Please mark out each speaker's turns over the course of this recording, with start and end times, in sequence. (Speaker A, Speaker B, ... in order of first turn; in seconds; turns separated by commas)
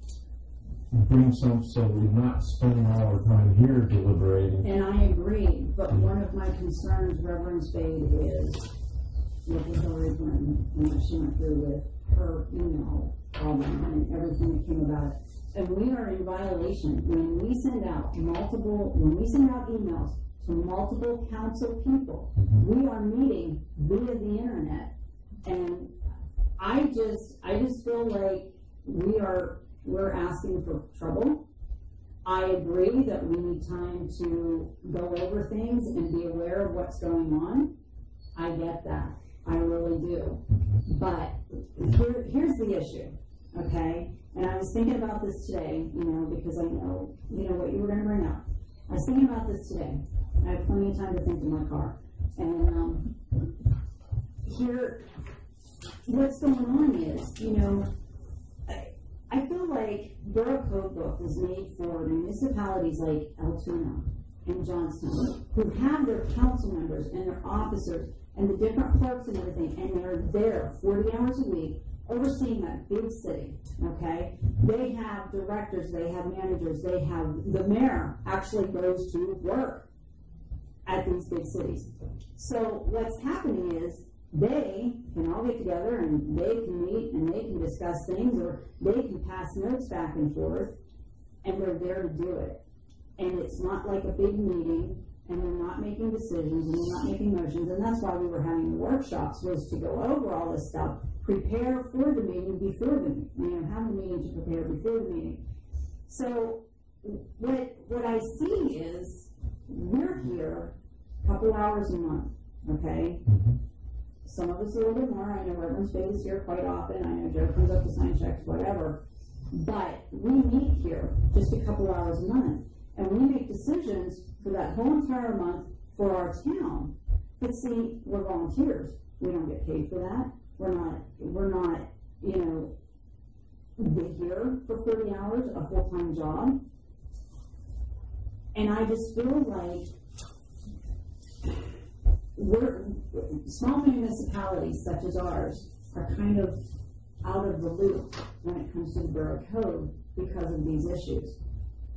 Speaker A: 0.9-4.7, Speaker B: 4.6-8.7, Speaker B: 9.4-24.9, Speaker A: 22.4-22.6, Speaker B: 25.4-25.9, Speaker B: 26.6-31.4, Speaker B: 32.2-37.7, Speaker B: 38.3-53.1, Speaker A: 40.5-40.8, Speaker B: 54.4-55.0, Speaker B: 56.0-57.9, Speaker B: 58.7-79.9, Speaker B: 80.8-90.8, Speaker B: 91.4-92.6, Speaker B: 93.2-105.4, Speaker B: 106.1-113.2, Speaker A: 113.2-113.6, Speaker B: 114.2-119.0, Speaker B: 119.5-132.7, Speaker B: 133.8-136.6, Speaker B: 138.5-139.9, Speaker B: 142.3-146.6, Speaker B: 147.2-151.4